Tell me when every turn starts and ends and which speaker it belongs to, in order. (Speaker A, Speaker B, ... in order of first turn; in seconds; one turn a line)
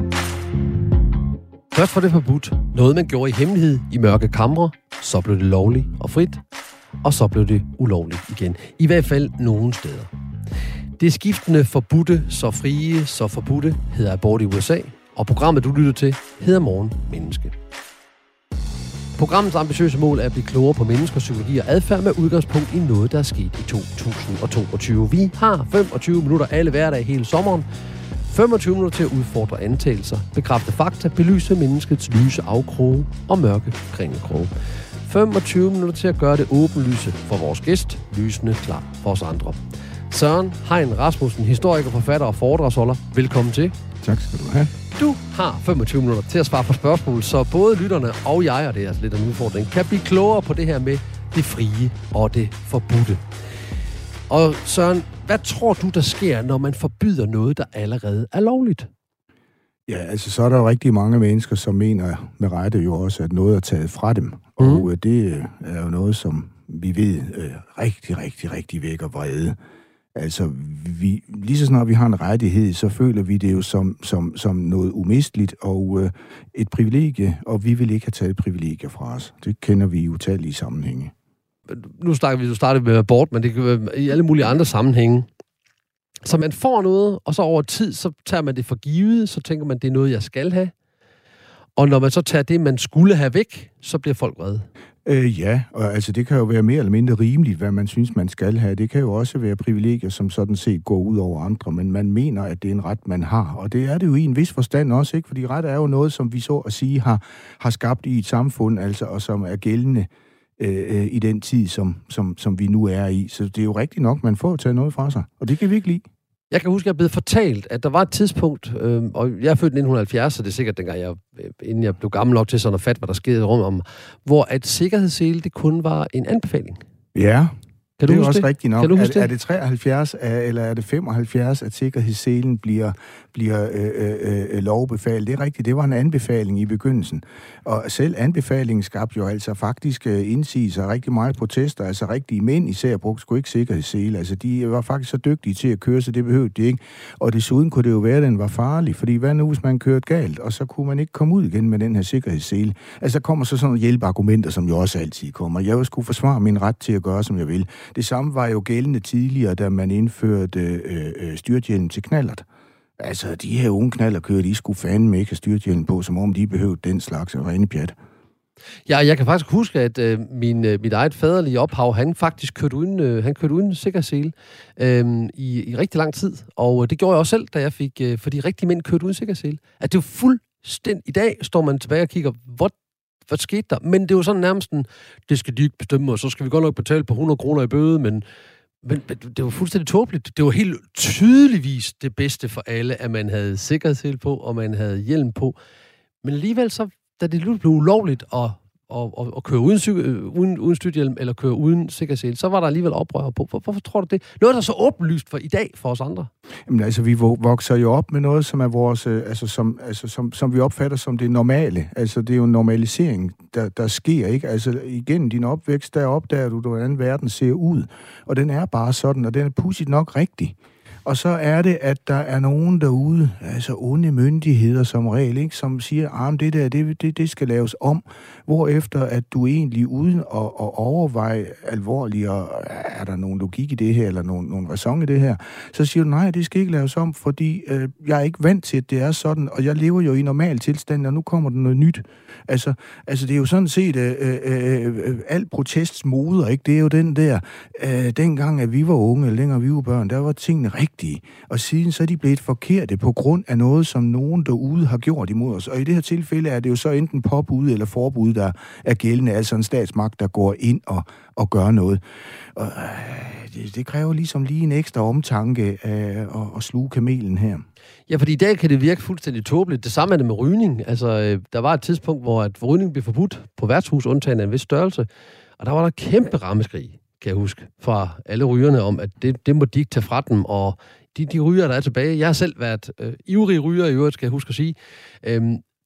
Speaker A: 1.7-6.4
Speaker A: 7.0-10.1
Speaker A: 11.0-17.5
Speaker A: 19.2-27.7
Speaker A: 28.3-34.5
Speaker A: 35.1-39.6
Speaker A: 40.1-43.8
Speaker B: 44.0-44.7
Speaker A: 45.0-53.2
Speaker A: 54.3-58.9
Speaker B: 59.9-69.6
Speaker A: 64.6-64.9
Speaker B: 70.2-81.1
Speaker A: 81.7-85.3
Speaker A: 86.2-90.7
Speaker A: 91.8-94.7
Speaker B: 95.1-116.0
Speaker A: 116.5-126.8
Speaker B: 127.2-127.5
Speaker A: 128.0-129.3
Speaker B: 128.1-162.4
Speaker B: 163.0-167.9
Speaker A: 168.9-182.7
Speaker A: 183.3-188.2
Speaker A: 188.8-195.6
Speaker A: 196.2-206.3
Speaker B: 206.7-262.0
Speaker B: 262.6-267.6
Speaker A: 268.1-275.1
Speaker A: 275.6-285.6